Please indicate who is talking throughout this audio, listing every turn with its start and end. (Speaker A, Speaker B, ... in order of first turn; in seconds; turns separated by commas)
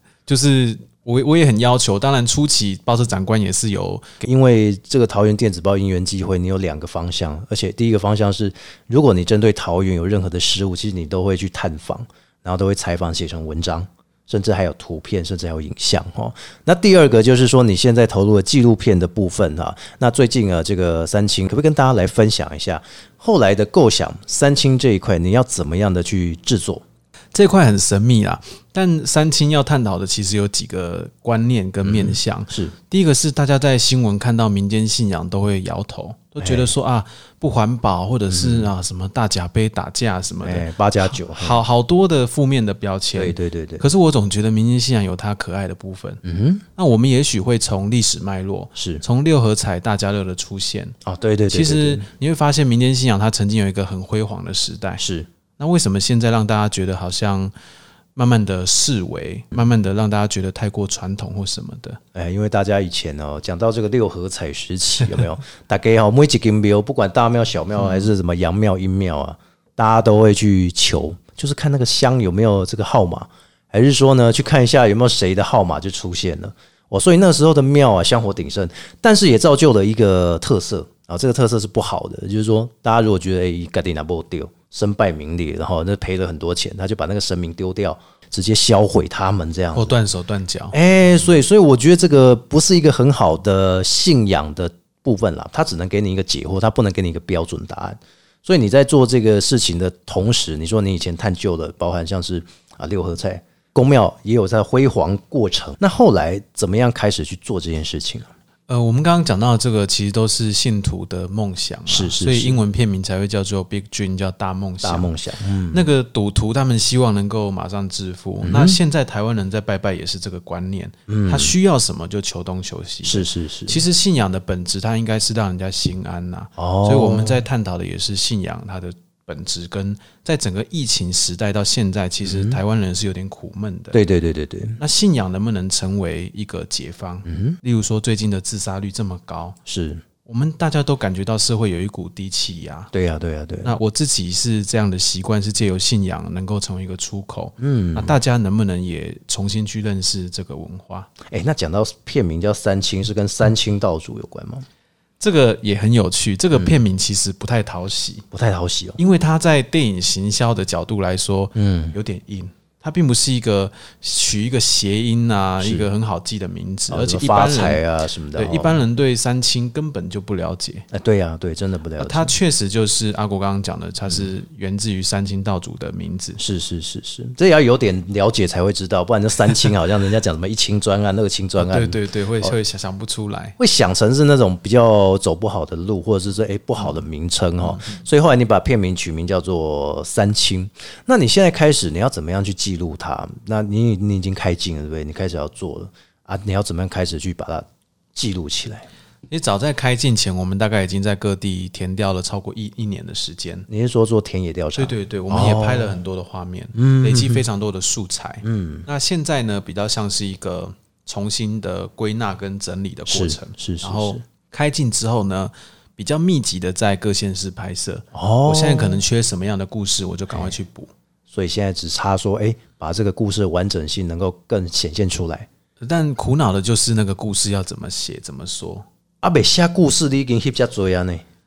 Speaker A: 0.3-4.0, Speaker B: 4.2-26.8, Speaker A: 27.3-46.2, Speaker B: 31.8-32.7, Speaker B: 36.4-36.7, Speaker B: 38.3-38.7, Speaker B: 40.4-41.6, Speaker B: 43.1-43.9, Speaker B: 46.2-46.6, Speaker A: 46.8-50.9, Speaker B: 48.8-49.0, Speaker B: 51.0-52.1, Speaker A: 51.5-55.0, Speaker B: 55.0-55.3, Speaker A: 55.6-57.5, Speaker A: 58.1-62.0, Speaker B: 62.1-89.9, Speaker A: 67.8-68.1, Speaker A: 89.7-90.8, Speaker B: 90.7-108.3, Speaker A: 108.7-115.1, Speaker B: 111.9-112.6, Speaker B: 114.8-115.8, Speaker A: 115.7-134.0, Speaker B: 118.4-118.8, Speaker B: 121.1-121.5, Speaker B: 123.0-123.8, Speaker B: 126.6-127.4, Speaker B: 132.2-132.6, Speaker B: 133.9-134.8, Speaker A: 134.8-139.6, Speaker B: 137.2-137.6, Speaker B: 139.7-140.0, Speaker A: 140.2-142.9, Speaker B: 142.9-143.7, Speaker A: 143.6-151.1, Speaker B: 147.6-148.1, Speaker B: 151.2-154.7, Speaker A: 155.2-158.2, Speaker B: 158.3-159.0, Speaker A: 159.0-170.9, Speaker B: 161.6-161.9, Speaker B: 165.6-165.9, Speaker B: 166.9-168.8, Speaker B: 170.9-172.3, Speaker A: 172.0-176.4, Speaker B: 176.4-182.5, Speaker A: 181.6-183.6, Speaker B: 183.6-198.8, Speaker A: 187.6-188.0, Speaker A: 199.3-203.7, Speaker B: 203.7-206.0, Speaker A: 204.8-220.9, Speaker B: 206.7-207.4, Speaker B: 208.4-208.9, Speaker B: 213.1-214.2, Speaker B: 218.1-219.0, Speaker B: 221.3-225.5, Speaker A: 225.8-228.8, Speaker B: 229.2-231.2